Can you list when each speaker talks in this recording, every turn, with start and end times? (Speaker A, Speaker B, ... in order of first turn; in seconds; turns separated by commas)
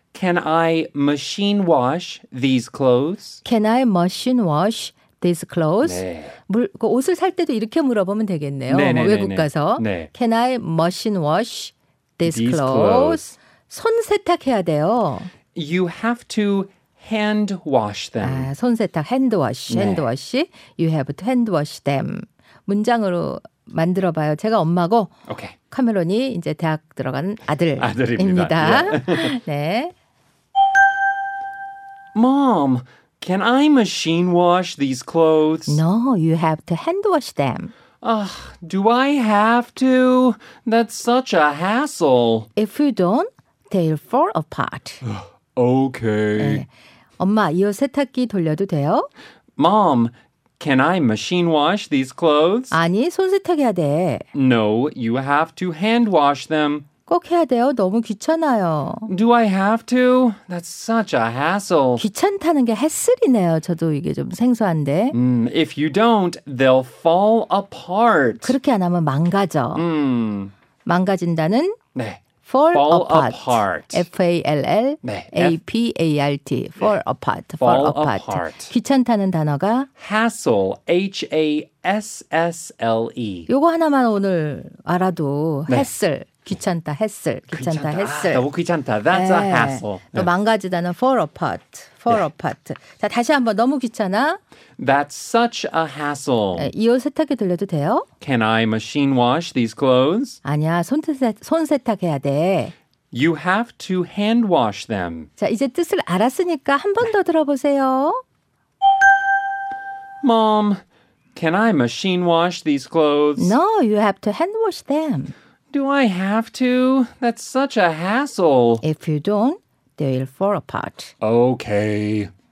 Speaker A: 0.1-3.4, Speaker B: 3.4-15.3, Speaker A: 5.8-6.4, Speaker A: 8.7-10.1, Speaker A: 12.2-13.2, Speaker A: 15.6-18.5, Speaker B: 18.2-25.1, Speaker A: 19.7-20.1, Speaker A: 25.3-25.6, Speaker B: 25.7-29.9, Speaker A: 27.8-29.4, Speaker A: 32.1-35.8, Speaker B: 35.7-37.7, Speaker A: 38.0-42.5, Speaker B: 42.6-45.0, Speaker A: 45.0-46.6, Speaker B: 46.4-49.1, Speaker A: 49.6-52.8, Speaker B: 52.7-54.2, Speaker A: 54.3-56.9, Speaker B: 57.1-59.1, Speaker A: 59.1-62.0, Speaker B: 62.0-65.2, Speaker A: 65.1-68.6, Speaker B: 68.4-69.8, Speaker A: 69.8-70.5, Speaker B: 70.8-71.8, Speaker A: 72.0-74.1, Speaker B: 72.4-79.9, Speaker A: 75.0-75.6, Speaker A: 77.6-78.7, Speaker A: 80.0-83.5, Speaker B: 83.5-88.4, Speaker A: 87.5-90.3, Speaker B: 89.1-94.4, Speaker A: 94.8-96.7, Speaker B: 96.5-98.1, Speaker A: 98.2-100.4, Speaker B: 100.4-102.7, Speaker A: 103.1-105.3, Speaker B: 105.4-108.2, Speaker A: 110.2-110.8, Speaker A: 111.3-113.6, Speaker B: 113.4-115.3, Speaker A: 115.7-118.8, Speaker B: 118.8-121.1, Speaker A: 121.2-122.3